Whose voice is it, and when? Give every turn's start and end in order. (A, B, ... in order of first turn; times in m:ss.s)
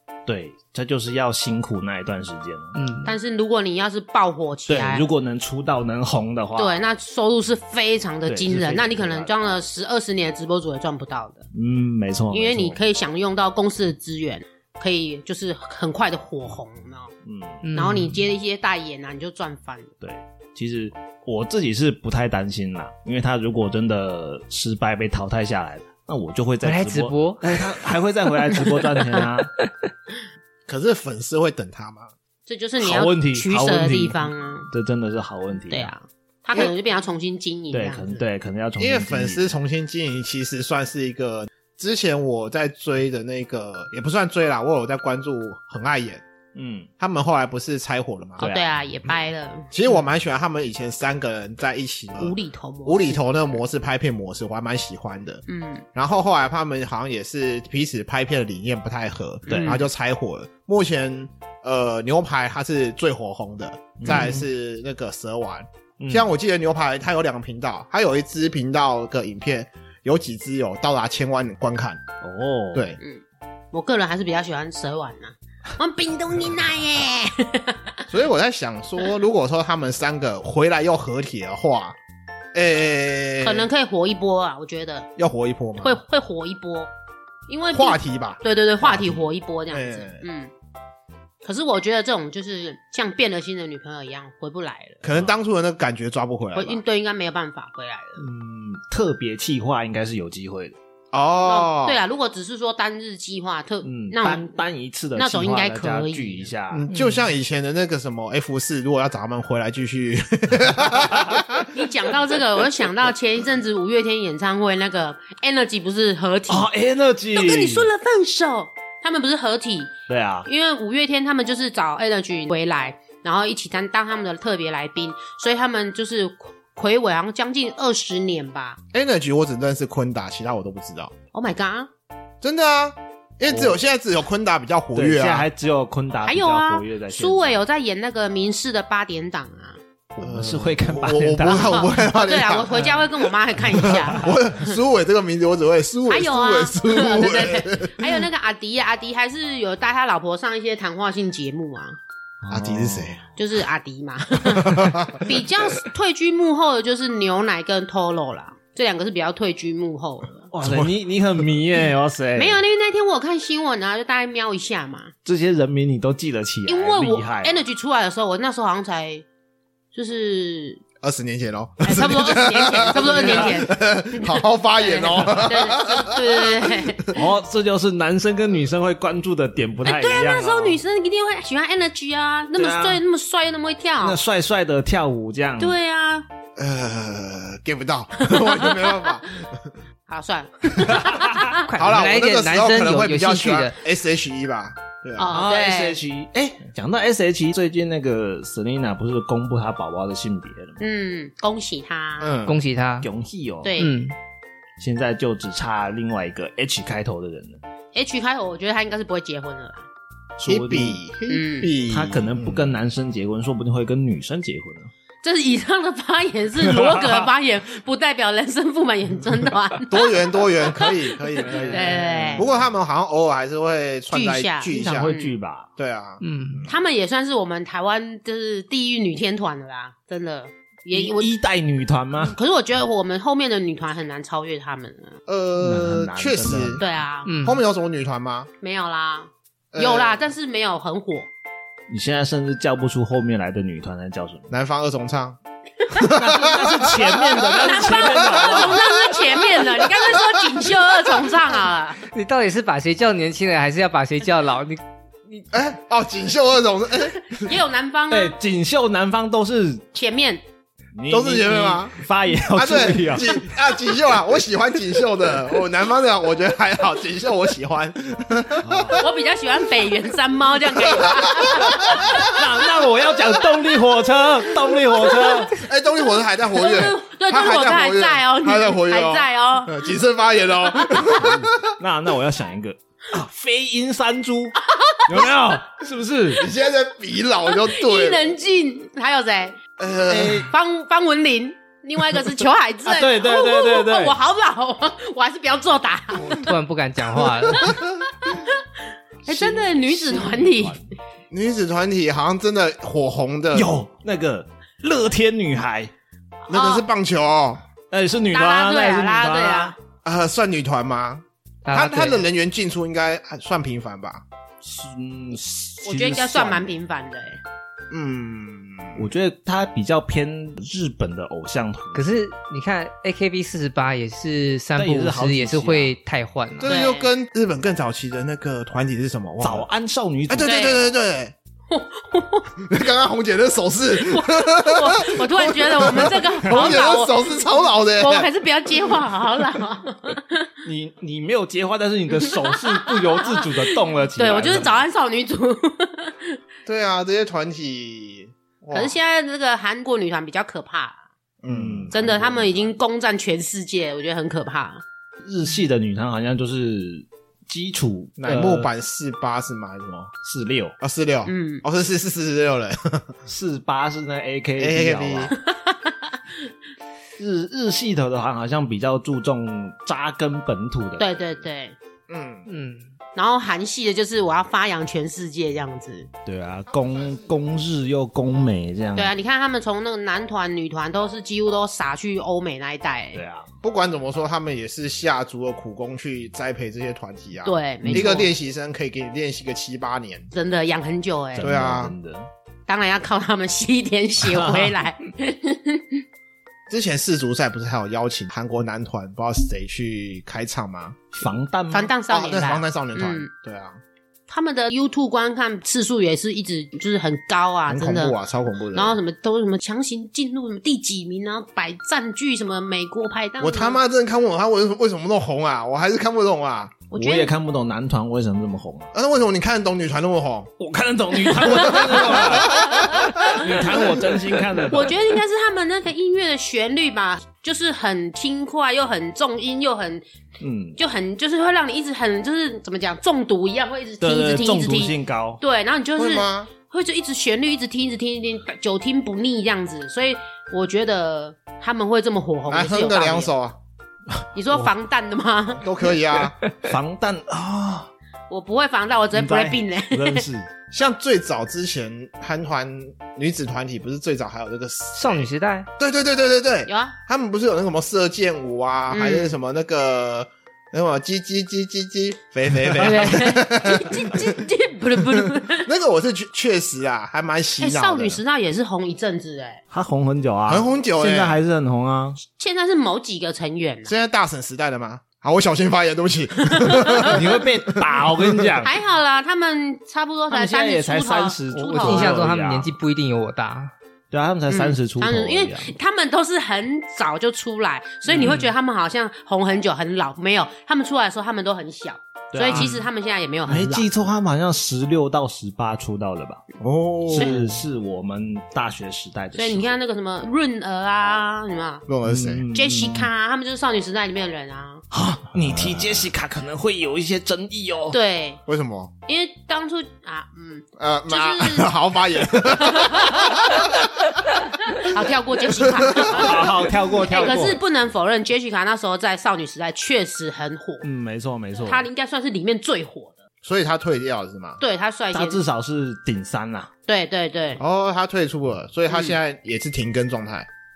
0:00.3-0:02.8 A
0:02.7-0:03.2 B
0:03.0-0:05.0 C
0:04.7-0:06.8 A
0:06.6-0:11.5 C
0:08.3-0:09.3 A
0:11.5-0:12.8 A
0:12.3-0:17.1 C
0:17.2-0:17.6 A
0:17.6-0:18.2 B
0:17.7-0:19.9 C
0:20.0-0:29.5 A
0:26.6-0:27.6 B
0:30.7-0:32.1 D
0:32.5-0:34.7 C
0:32.8-0:35.9 A
0:35.7-0:38.2 C
0:37.7-0:39.5 A
0:38.8-0:46.2 D
0:46.5-0:46.9 A
0:47.0-0:48.5 D
0:48.4-0:48.8 A
0:48.4-0:49.7 C
0:49.7-0:55.4 D
0:52.2-0:53.4 C
0:55.5-0:55.8 C
0:55.9-1:12.0 D
0:59.5-0:59.8 C
0:59.5-0:59.8 A
1:04.0-1:04.4 A
1:06.0-1:06.3 A
1:12.2-1:12.9 A
1:12.7-1:13.0 D
1:13.0-1:18.0 C
1:18.1-1:22.0 D
1:22.5-1:23.7 D
1:23.4-1:25.1 C
1:25.2-1:26.0 D
1:25.8-1:26.9 C
1:27.5-1:30.5 C
1:27.7-1:30.2 D
1:31.4-1:35.0 C
1:35.0-1:36.8 D
1:36.5-1:38.2 C
1:38.2-1:40.8 A
1:41.1-1:42.0 D
1:41.4-1:44.5 C
1:43.8-1:46.8 A
1:45.2-1:46.5 C
1:46.7-1:51.7 D
1:46.9-1:47.2 B
1:51.7-1:56.7 C
1:56.5-1:57.9 A
1:57.3-1:59.9 C
2:00.1-2:00.5 A
2:00.4-2:08.8 C
2:08.9-2:11.1 D
2:11.3-2:11.9 C
2:12.4-2:15.5 D
2:13.5-2:13.8 A
2:14.9-2:17.6 A
2:16.2-2:19.8 C
2:20.2-2:21.9 A
2:20.2-2:28.2 D
2:21.4-2:24.8 C
2:26.1-2:32.0 C
2:32.4-2:33.2 A
2:32.5-2:33.2 D
2:33.4-2:40.5 C
2:34.5-2:35.3 D
2:40.5-2:42.6 A
2:40.6-2:40.9 D
2:42.4-2:45.1 C
2:45.2-2:47.6 A
2:46.7-2:49.2 C
2:49.9-2:50.8 C
2:51.0-2:57.1 D
2:51.8-2:57.2 C
2:52.9-2:53.6 A
2:55.2-2:55.5 A
2:57.1-3:00.8 A
2:59.8-3:04.2 C
3:02.5-3:03.0 A
3:04.0-3:05.8 A
3:05.6-3:06.3 C
3:06.6-3:09.7 D
3:08.2-3:09.2 C
3:10.1-3:11.7 C
3:10.9-3:11.5 A
3:11.6-3:13.8 B
3:11.7-3:15.4 D
3:15.2-3:16.0 C
3:15.3-3:20.8 A
3:20.8-3:22.3 C
3:22.2-3:22.6 D
3:22.4-3:23.1 B
3:23.0-3:23.8 A
3:23.6-3:23.9 C
3:23.8-3:24.1 B
3:24.8-3:27.6 A
3:27.9-3:29.8 C
3:30.4-3:31.0 A
3:30.4-3:32.7 D
3:31.3-3:31.7 C
3:31.9-3:34.9 A
3:35.2-3:42.5 C
3:36.6-3:37.3 A
3:39.9-3:45.1 D
3:41.4-3:42.5 A
3:44.1-3:45.4 C
3:44.7-3:45.7 A
3:45.8-3:46.7 D
3:46.2-3:46.6 B
3:46.7-3:51.3 C
3:50.9-3:52.4 A
3:52.2-3:55.2 C
3:55.3-3:56.8 D
3:55.6-3:56.8 A
3:56.8-3:57.3 C
3:57.2-3:57.6 B
3:57.4-3:58.5 D
3:58.6-4:01.3 C
3:59.7-4:00.3 D
4:01.9-4:04.5 A
4:04.5-4:05.4 D
4:05.9-4:11.3 D
4:06.0-4:09.0 A
4:07.4-4:12.0 C
4:12.1-4:15.5 B
4:15.5-4:17.6 D
4:17.3-4:18.3 C
4:18.1-4:19.9 A
4:19.9-4:20.4 C
4:20.9-4:23.5 A
4:21.1-4:29.0 D
4:28.6-4:29.0 A
4:29.0-4:32.4 C
4:30.8-4:32.3 D
4:32.1-4:35.5 A
4:35.0-4:35.5 C
4:35.6-4:41.7 D
4:36.5-4:39.8 C
4:40.9-4:41.2 C
4:41.1-4:46.4 A
4:44.7-4:45.3 C
4:46.3-4:48.3 D
4:47.5-4:49.6 C
4:49.8-4:50.5 D
4:50.1-4:50.5 A
4:50.3-4:56.5 C
4:52.8-4:54.2 A
4:56.2-4:57.8 B
4:57.6-4:57.8 D
4:57.6-4:58.6 C
4:59.2-5:00.8 C
4:59.3-5:00.8 A
5:01.3-5:03.8 D
5:03.5-5:05.9 A
5:06.5-5:06.8 C
5:06.5-5:07.6 D
5:07.9-5:09.7 A
5:08.3-5:09.7 C
5:10.0-5:14.2 D
5:11.6-5:12.2 B
5:14.6-5:16.8 A
5:15.8-5:17.4 C
5:17.9-5:19.1 D
5:19.0-5:22.1 A
5:21.9-5:26.7 B
5:24.8-5:25.9 A
5:26.6-5:29.7 D
5:26.6-5:27.1 C
5:29.4-5:30.6 A
5:30.3-5:31.3 D
5:30.4-5:30.8 C
5:31.7-5:32.6 C
5:32.6-5:38.3 D
5:33.9-5:37.4 C
5:36.4-5:36.8 A
5:38.0-5:40.5 C
5:40.6-5:44.8 A
5:42.2-5:46.4 C
5:46.6-5:49.0 D
5:48.7-5:51.0 C
5:51.4-5:52.6 D
5:51.5-5:52.5 A
5:51.9-5:54.8 C
5:55.2-5:58.7 A
5:58.2-6:00.1 D
6:00.2-6:00.8 A
6:00.8-6:03.1 D
6:01.2-6:01.6 C
6:03.3-6:05.3 A
6:04.6-6:05.3 D
6:05.4-6:06.1 C
6:07.2-6:11.3 A
6:11.0-6:11.8 C
6:12.1-6:12.5 D
6:12.5-6:12.9 B
6:13.1-6:16.1 C
6:16.2-6:19.1 A
6:19.0-6:23.2 C
6:23.1-6:23.5 A
6:23.6-6:30.3 D
6:27.4-6:28.3 C
6:27.8-6:28.3 A
6:30.3-6:31.5 C
6:31.3-6:32.3 A
6:31.4-6:31.9 D
6:32.7-6:36.0 C
6:34.2-6:34.7 A
6:36.7-6:41.1 D
6:41.1-6:41.9 A
6:41.7-6:43.3 C
6:42.1-6:43.8 D
6:44.3-6:48.2 C
6:47.7-6:49.0 D
6:48.7-6:53.8 C
6:53.4-6:56.8 D
6:56.9-6:57.3 C
6:56.9-6:58.9 A
6:58.9-7:00.5 D
7:00.6-7:05.1 A
7:01.3-7:03.5 C
7:01.7-7:03.4 D
7:04.7-7:10.0 C
7:10.4-7:10.8 A
7:10.8-7:23.3 C
7:14.0-7:15.4 A
7:16.0-7:16.5 D
7:22.5-7:23.6 D
7:24.1-7:24.7 A
7:24.3-7:25.7 C
7:25.5-7:26.3 D
7:26.5-7:27.9 A
7:28.3-7:30.2 C
7:29.1-7:30.5 A
7:30.7-7:44.4 D
7:34.9-7:35.7 B
7:36.7-7:36.9 C
7:38.9-7:39.3 C
7:42.7-7:45.7 C
7:45.0-7:48.2 D
7:47.6-7:49.6 C
7:49.7-7:52.2 A
7:50.5-7:51.4 D
7:52.3-7:53.9 C
7:53.8-7:58.5 D
7:56.5-7:57.2 C
7:57.1-7:58.8 A
7:58.6-8:02.2 C
8:00.3-8:02.7 A
8:01.5-8:03.7 B
8:04.1-8:05.7 A
8:04.5-8:13.9 C
8:08.2-8:08.5 B
8:12.3-8:12.9 A
8:12.5-8:12.8 B
8:13.4-8:16.4 A
8:16.6-8:17.4 D
8:17.1-8:19.7 A
8:17.1-8:17.6 C
8:19.3-8:21.8 C
8:21.9-8:22.4 D
8:22.0-8:23.1 A
8:22.5-8:24.8 C
8:24.9-8:28.0 A
8:27.9-8:28.4 C
8:28.4-8:28.9 D
8:29.0-8:31.7 C
8:30.8-8:33.9 D
8:32.6-8:33.8 C
8:34.7-8:40.8 C
8:35.5-8:36.5 D
8:36.0-8:37.6 A
8:40.8-8:41.9 A
8:41.6-8:43.2 C
8:43.4-8:44.6 D
8:44.6-8:45.4 C
8:45.1-8:46.7 A
8:46.9-8:47.6 C
8:47.6-8:50.5 D
8:48.9-8:49.2 C